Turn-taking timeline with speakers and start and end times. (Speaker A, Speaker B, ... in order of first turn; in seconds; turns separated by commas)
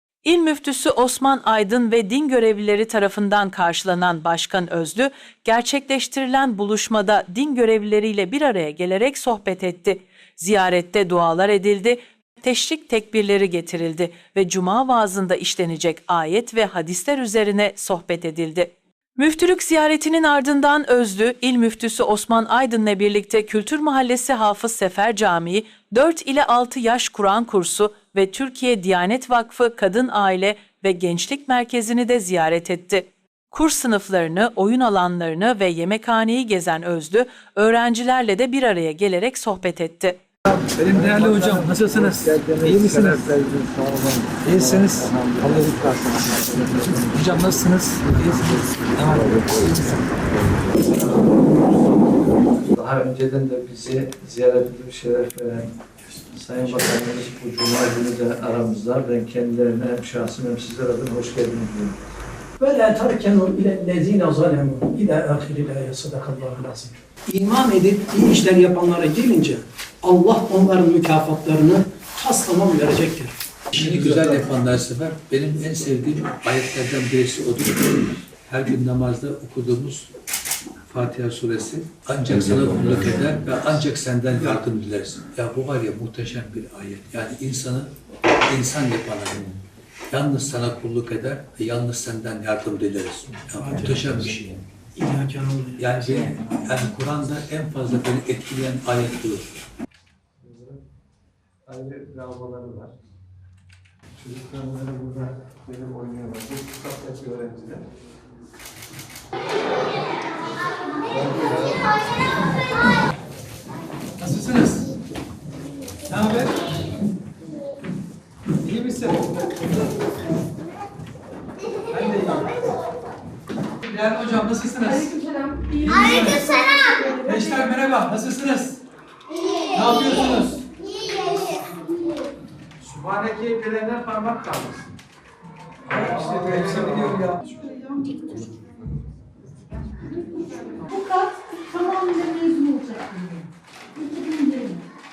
Speaker A: 0.2-40.2, Speaker B: 40.5-43.3, Speaker C: 40.8-47.4, Speaker B: 44.4-50.0, Speaker C: 48.2-49.8, Speaker C: 50.6-55.7, Speaker C: 56.3-62.0, Speaker D: 62.6-74.0, Speaker B: 73.7-80.1, Speaker B: 80.9-87.9, Speaker B: 88.4-89.5, Speaker B: 90.1-94.6, Speaker D: 93.5-94.3, Speaker D: 95.0-96.3, Speaker B: 95.8-99.5, Speaker C: 100.4-100.8, Speaker C: 101.7-102.9, Speaker C: 104.2-107.8, Speaker C: 111.0-111.9, Speaker B: 114.2-114.9, Speaker D: 116.1-116.5, Speaker B: 118.6-119.2, Speaker D: 121.9-122.2, Speaker B: 123.8-125.1, Speaker D: 125.4-127.5, Speaker B: 125.9-126.6, Speaker B: 127.2-128.8, Speaker B: 129.7-130.6, Speaker C: 132.9-134.9, Speaker B: 135.9-137.3, Speaker D: 135.9-137.5, Speaker C: 136.1-137.2, Speaker C: 138.1-138.4, Speaker E: 140.8-144.8